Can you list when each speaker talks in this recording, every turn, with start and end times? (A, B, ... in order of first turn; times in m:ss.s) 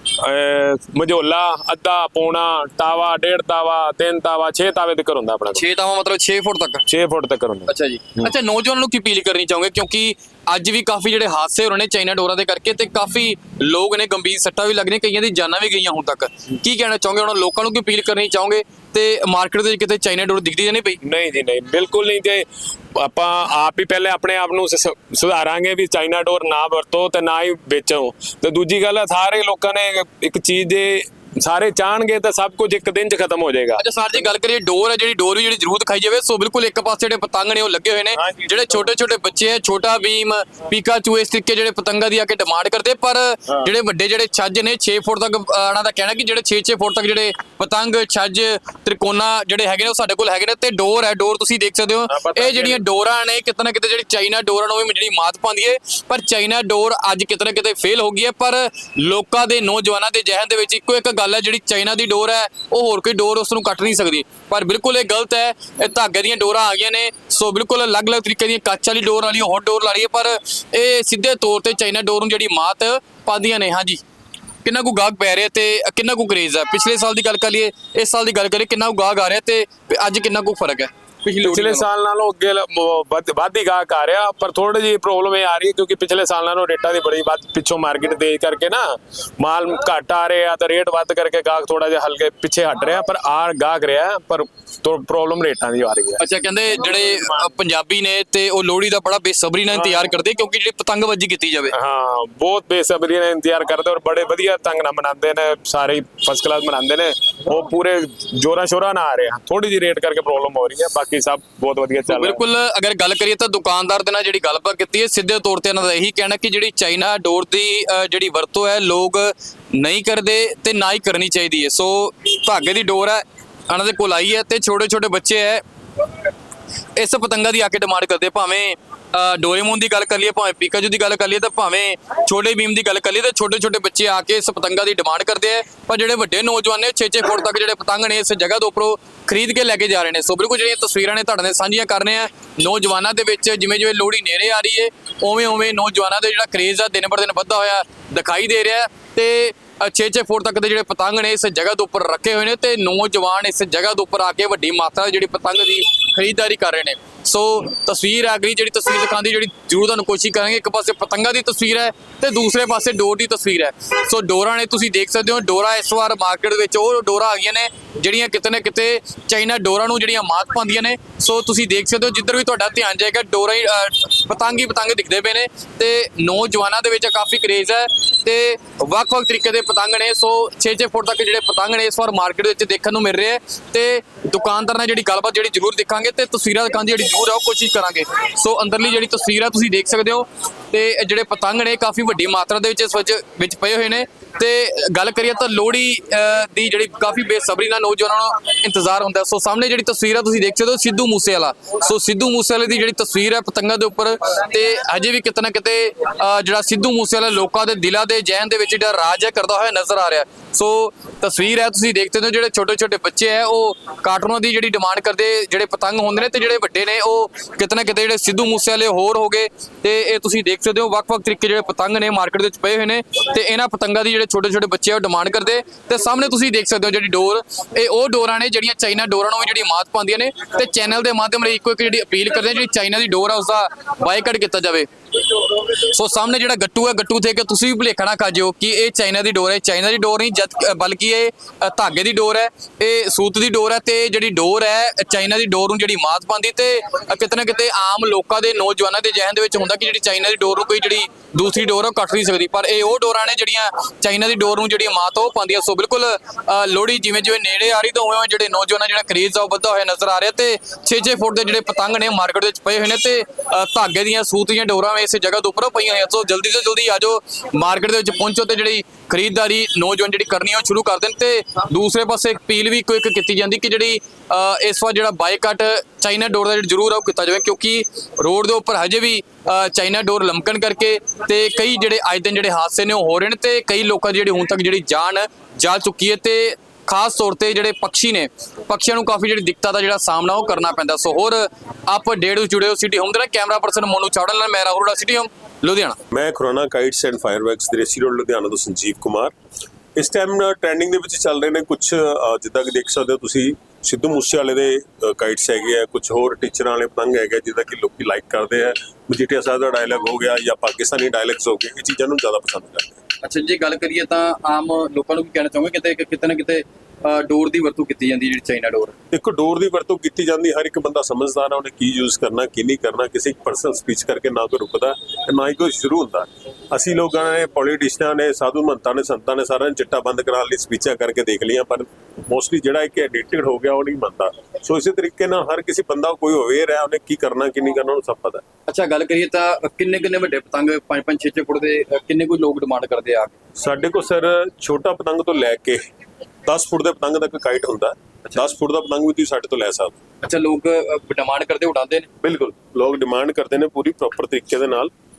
0:00.2-0:05.6 A
0:05.5-0:06.8 B
0:06.9-0:07.7 A
0:07.7-0:21.0 B
0:21.0-0:33.8 A
0:33.8-1:14.0 B
0:38.2-0:38.9 A
0:52.1-0:52.8 A
1:14.6-1:21.9 B
1:21.4-1:37.5 A
1:36.2-1:41.7 B
1:39.7-1:40.1 A
1:41.7-1:52.4 A
1:52.1-2:05.6 B
2:07.0-4:56.0 B
4:56.1-4:59.3 C
4:59.9-5:13.0 C
5:13.2-5:18.9 B
5:19.1-5:38.4 C
5:38.7-5:43.3 B
5:43.6-5:45.8 C
5:46.5-5:50.0 C
5:50.2-5:52.1 B
5:52.2-5:54.9 C